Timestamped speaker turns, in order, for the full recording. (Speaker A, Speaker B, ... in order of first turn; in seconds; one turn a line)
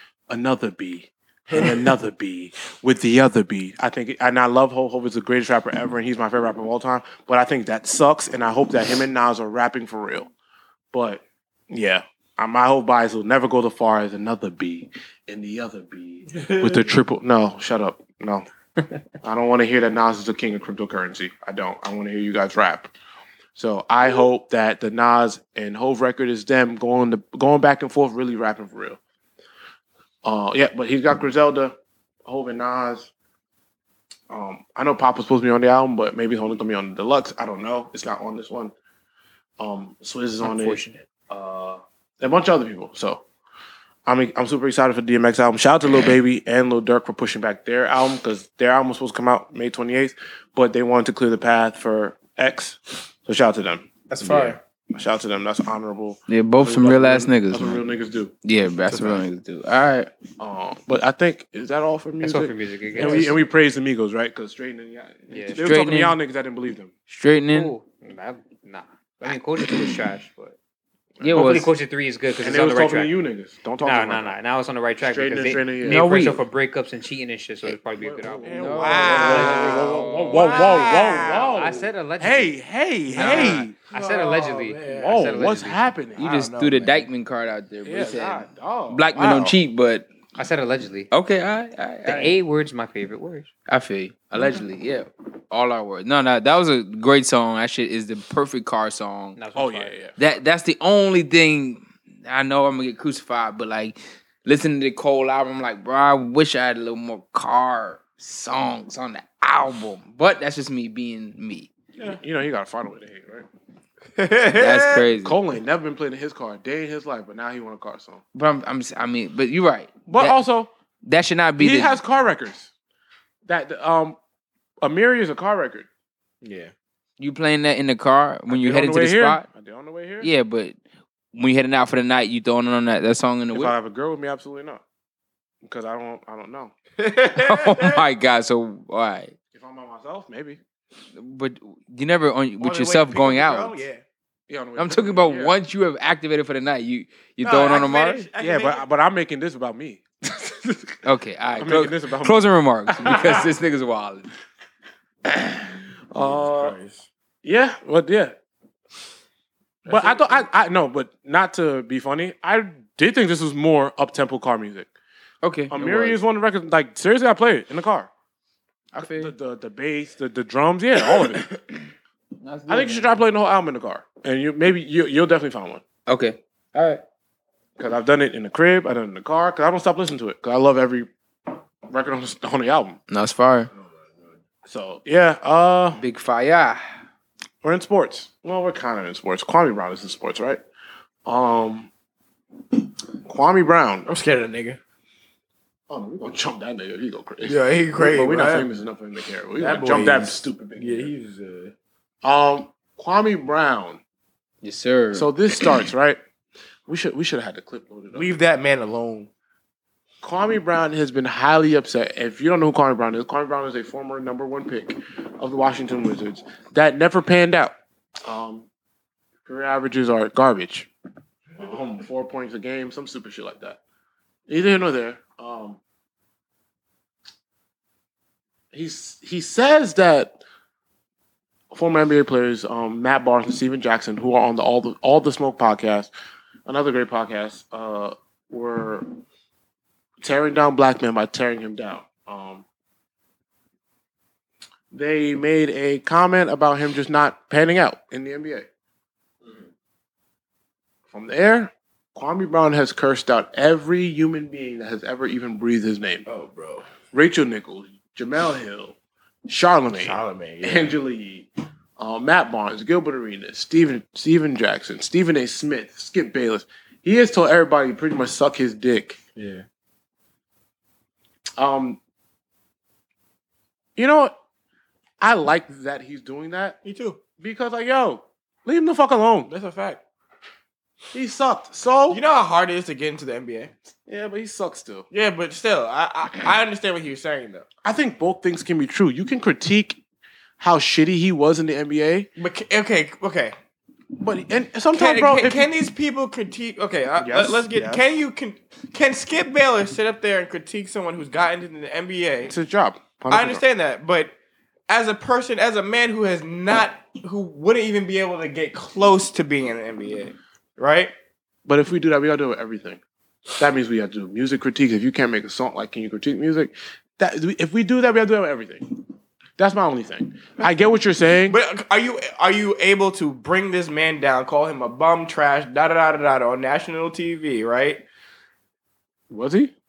Speaker A: 0.3-10.3
Speaker B: 1.5-1.8
Speaker A: 10.9-18.4
Speaker B: 16.3-16.9
Speaker A: 19.2-22.9
Speaker A: 23.6-29.0
Speaker A: 30.2-33.1
Speaker A: 34.3-38.7
Speaker A: 39.6-43.2
Speaker C: 40.4-41.0
Speaker A: 44.0-58.3
Speaker B: 54.1-54.6
Speaker D: 56.3-57.8
Speaker D: 58.4-60.1
Speaker B: 58.9-59.2
Speaker A: 60.4-66.9
Speaker C: 62.2-63.4
Speaker B: 63.0-63.3
Speaker C: 65.3-65.6
Speaker D: 65.6-66.2
Speaker D: 67.1-67.7
Speaker C: 67.5-70.6
Speaker A: 71.2-71.6
Speaker D: 71.2-71.7
Speaker C: 71.3-73.2
Speaker A: 72.4-74.4
Speaker C: 73.8-82.6
Speaker A: 75.0-76.0
Speaker D: 75.8-76.4
Speaker A: 78.0-83.7
Speaker D: 78.5-80.6
Speaker B: 78.6-81.8
Speaker D: 83.2-83.7
Speaker C: 83.2-85.9
Speaker B: 83.2-85.3
Speaker A: 85.0-86.3
Speaker D: 86.2-90.1
Speaker B: 86.2-87.1
Speaker A: 87.8-89.5
Speaker C: 90.3-91.1
Speaker D: 91.1-92.3
Speaker C: 92.0-93.5
Speaker D: 93.7-99.4
Speaker C: 99.3-100.0
Speaker A: 99.5-100.2
Speaker D: 100.2-111.7
Speaker A: 112.0-113.5
Speaker B: 114.2-115.1
Speaker D: 114.6-115.4
Speaker A: 115.1-118.2
Speaker D: 118.3-120.4
Speaker A: 120.1-120.7
Speaker D: 121.0-122.0
Speaker A: 121.6-122.7
Speaker A: 123.5-124.2
Speaker A: 124.8-125.9
Speaker B: 126.4-126.7
Speaker D: 127.2-129.4
Speaker A: 128.5-130.3
Speaker D: 130.2-130.8
Speaker D: 131.3-133.7
Speaker A: 133.5-134.8
Speaker A: 135.6-136.7
Speaker B: 137.0-138.0
Speaker D: 137.3-139.3
Speaker A: 139.5-140.6
Speaker D: 141.2-143.8
Speaker B: 142.6-144.0
Speaker A: 144.5-145.6
Speaker D: 144.8-148.3
Speaker B: 147.4-148.8
Speaker A: 148.4-150.9
Speaker D: 151.0-154.3
Speaker A: 151.6-153.5
Speaker A: 155.3-156.7
Speaker B: 156.1-157.1
Speaker A: 157.4-158.3
Speaker B: 159.8-160.4
Speaker A: 159.8-164.9
Speaker D: 165.4-166.2
Speaker A: 165.7-168.1
Speaker D: 168.9-169.3
Speaker A: 168.9-171.5
Speaker D: 171.1-171.6
Speaker D: 172.4-173.1
Speaker A: 172.7-175.8
Speaker D: 176.1-177.0
Speaker A: 177.8-181.1
Speaker A: 181.9-183.0
Speaker D: 183.1-183.7
Speaker B: 183.7-184.3
Speaker A: 184.6-186.0
Speaker D: 186.0-186.8
Speaker A: 187.6-190.6
Speaker A: 191.3-191.9
Speaker A: 193.3-194.1
Speaker B: 194.1-194.8
Speaker A: 195.9-201.1
Speaker B: 197.4-198.7
Speaker B: 199.6-201.7
Speaker A: 202.2-204.0
Speaker D: 204.6-205.7
Speaker A: 205.1-206.2
Speaker A: 206.8-208.3
Speaker B: 208.1-209.3
Speaker A: 210.2-218.7
Speaker A: 219.4-220.9
Speaker A: 221.6-223.8
Speaker A: 224.5-225.8
Speaker A: 228.7-230.4
Speaker A: 231.7-236.1
Speaker A: 236.7-239.1
Speaker A: 240.2-242.6
Speaker A: 244.9-248.7
Speaker A: 251.1-256.2
Speaker B: 256.2-256.9
Speaker A: 257.1-258.9
Speaker A: 259.5-261.5
Speaker B: 259.9-261.0
Speaker A: 262.0-269.2
Speaker B: 269.4-269.6
Speaker A: 271.6-272.0
Speaker A: 274.0-274.3
Speaker A: 275.2-276.8
Speaker B: 276.8-277.2
Speaker A: 277.4-279.5
Speaker B: 279.5-280.0
Speaker A: 281.1-282.2
Speaker B: 282.1-283.7
Speaker A: 284.1-285.1
Speaker B: 285.1-287.6
Speaker A: 287.8-290.0
Speaker A: 290.6-292.3
Speaker B: 292.4-293.6
Speaker A: 294.2-295.7
Speaker B: 294.9-302.5
Speaker A: 297.2-298.0
Speaker A: 302.5-303.6
Speaker B: 303.3-304.3
Speaker B: 304.9-311.1
Speaker A: 311.6-313.0
Speaker A: 313.6-318.9
Speaker A: 319.6-321.6
Speaker B: 321.5-328.0
Speaker A: 329.3-329.7